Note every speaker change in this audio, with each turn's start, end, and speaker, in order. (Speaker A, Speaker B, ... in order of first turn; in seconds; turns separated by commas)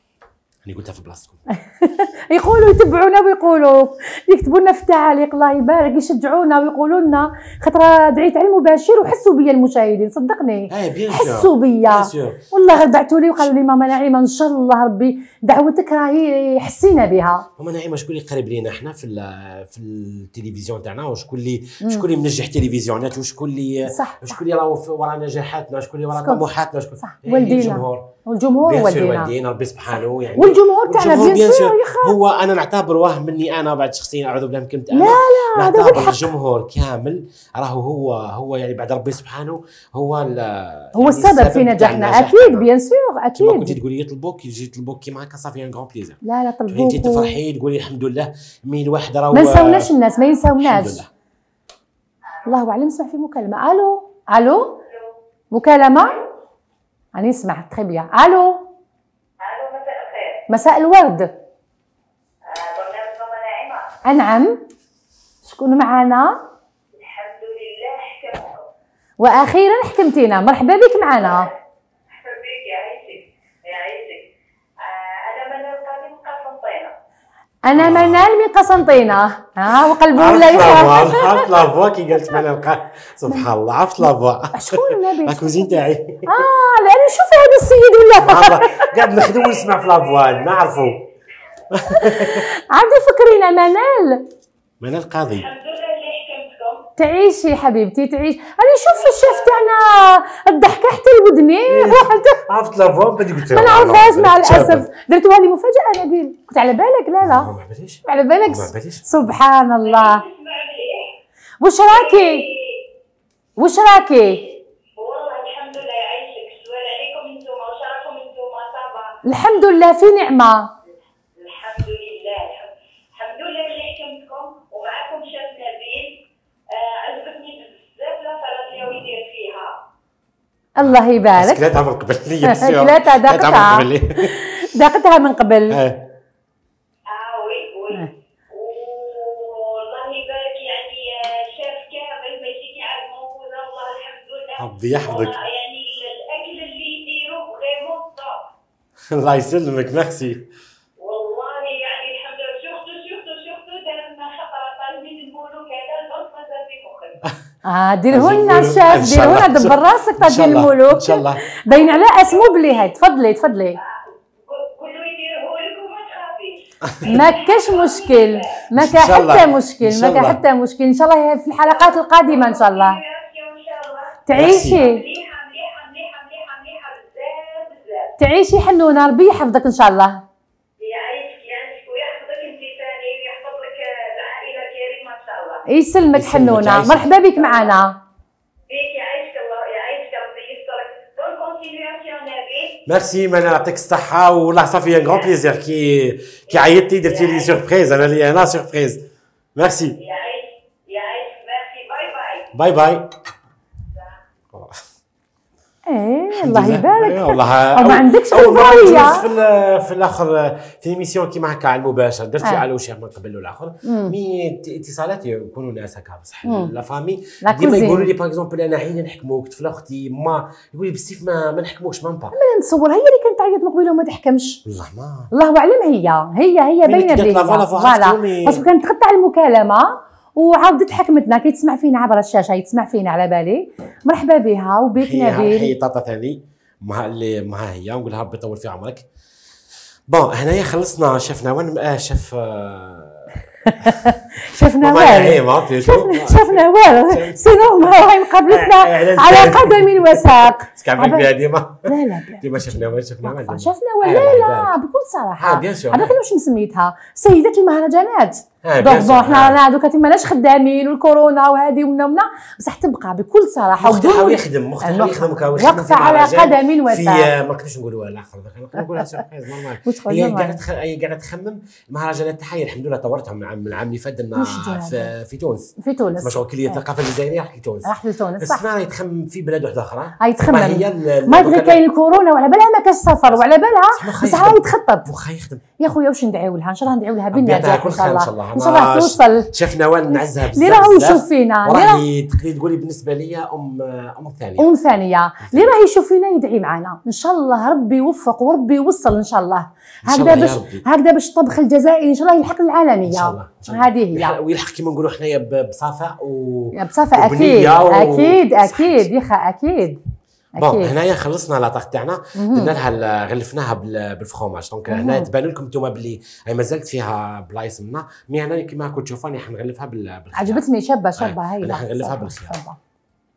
Speaker A: 0.6-1.4, Speaker B: 1.6-17.5, Speaker A: 10.7-12.5, Speaker A: 17.6-28.1, Speaker B: 21.8-22.1, Speaker B: 23.9-24.4, Speaker B: 26.1-26.4, Speaker B: 27.0-29.3, Speaker A: 28.6-42.7, Speaker B: 30.4-32.2, Speaker B: 34.9-36.3, Speaker B: 41.0-43.8, Speaker A: 43.4-49.9, Speaker B: 46.2-47.4, Speaker B: 49.3-51.0, Speaker A: 50.6-51.1, Speaker B: 52.5-54.8, Speaker C: 54.8-55.1, Speaker B: 55.5-56.2, Speaker B: 57.1-58.6, Speaker C: 59.4-60.5, Speaker B: 60.5-61.3, Speaker C: 62.5-64.0, Speaker B: 64.0-64.6, Speaker B: 65.5-66.4, Speaker C: 66.9-68.7, Speaker B: 69.2-71.5, Speaker C: 71.2-71.5, Speaker C: 72.1-74.3, Speaker C: 74.8-76.9, Speaker B: 77.6-81.7, Speaker A: 77.8-78.3, Speaker A: 79.9-86.4, Speaker B: 84.5-88.9, Speaker A: 88.2-91.0, Speaker C: 89.3-91.0, Speaker A: 91.7-92.5, Speaker B: 91.9-94.2, Speaker A: 94.8-95.5, Speaker C: 95.3-96.8, Speaker B: 97.0-102.4, Speaker C: 99.1-99.5, Speaker A: 101.7-104.9, Speaker B: 103.5-107.5, Speaker A: 107.2-109.2, Speaker B: 108.0-110.2, Speaker C: 109.8-111.2, Speaker B: 111.6-112.5, Speaker C: 111.9-112.8, Speaker B: 113.6-114.5, Speaker C: 114.3-119.2, Speaker B: 119.2-120.7, Speaker C: 121.4-129.8, Speaker B: 130.8-131.6, Speaker A: 130.8-134.7, Speaker B: 132.4-135.8, Speaker A: 135.7-136.2, Speaker C: 137.1-148.5, Speaker A: 144.6-145.4, Speaker A: 149.1-150.5, Speaker C: 151.0-157.2, Speaker B: 157.7-163.8, Speaker A: 158.1-161.4, Speaker C: 161.8-162.6, Speaker C: 164.5-168.6, Speaker A: 166.8-167.2, Speaker B: 167.0-173.0, Speaker A: 168.7-170.4, Speaker C: 171.7-178.2, Speaker B: 174.3-175.0, Speaker A: 174.3-174.8, Speaker B: 178.2-180.2, Speaker C: 180.8-185.7, Speaker B: 185.7-188.0, Speaker A: 186.1-187.1, Speaker C: 187.4-187.7, Speaker C: 188.7-192.8, Speaker A: 192.9-199.0, Speaker C: 196.5-197.5, Speaker A: 199.6-200.0, Speaker C: 200.0-202.5, Speaker A: 202.5-203.2, Speaker A: 204.5-204.8, Speaker B: 205.9-209.3, Speaker A: 206.3-222.3, Speaker B: 213.8-214.2, Speaker B: 216.4-216.7, Speaker B: 217.4-218.1, Speaker B: 222.3-224.6, Speaker A: 224.7-225.3, Speaker B: 225.3-235.7, Speaker A: 226.8-228.7, Speaker A: 235.0-239.1, Speaker A: 240.1-254.8, Speaker B: 243.6-251.3, Speaker B: 251.9-267.3, Speaker A: 255.4-256.1, Speaker A: 258.6-259.6, Speaker A: 263.8-281.8, Speaker B: 269.9-270.6, Speaker B: 274.4-275.1, Speaker B: 275.8-276.8, Speaker B: 277.9-278.6, Speaker B: 280.2-285.1, Speaker A: 283.3-285.8, Speaker B: 285.8-289.5, Speaker A: 287.3-294.7, Speaker B: 290.5-292.0, Speaker B: 294.6-304.4, Speaker A: 295.4-295.7, Speaker A: 300.1-300.9, Speaker A: 303.1-309.1, Speaker B: 306.7-310.0, Speaker B: 310.6-310.9, Speaker A: 310.6-320.6, Speaker B: 312.4-312.7, Speaker B: 314.9-315.3, Speaker B: 320.3-322.8, Speaker A: 321.2-322.6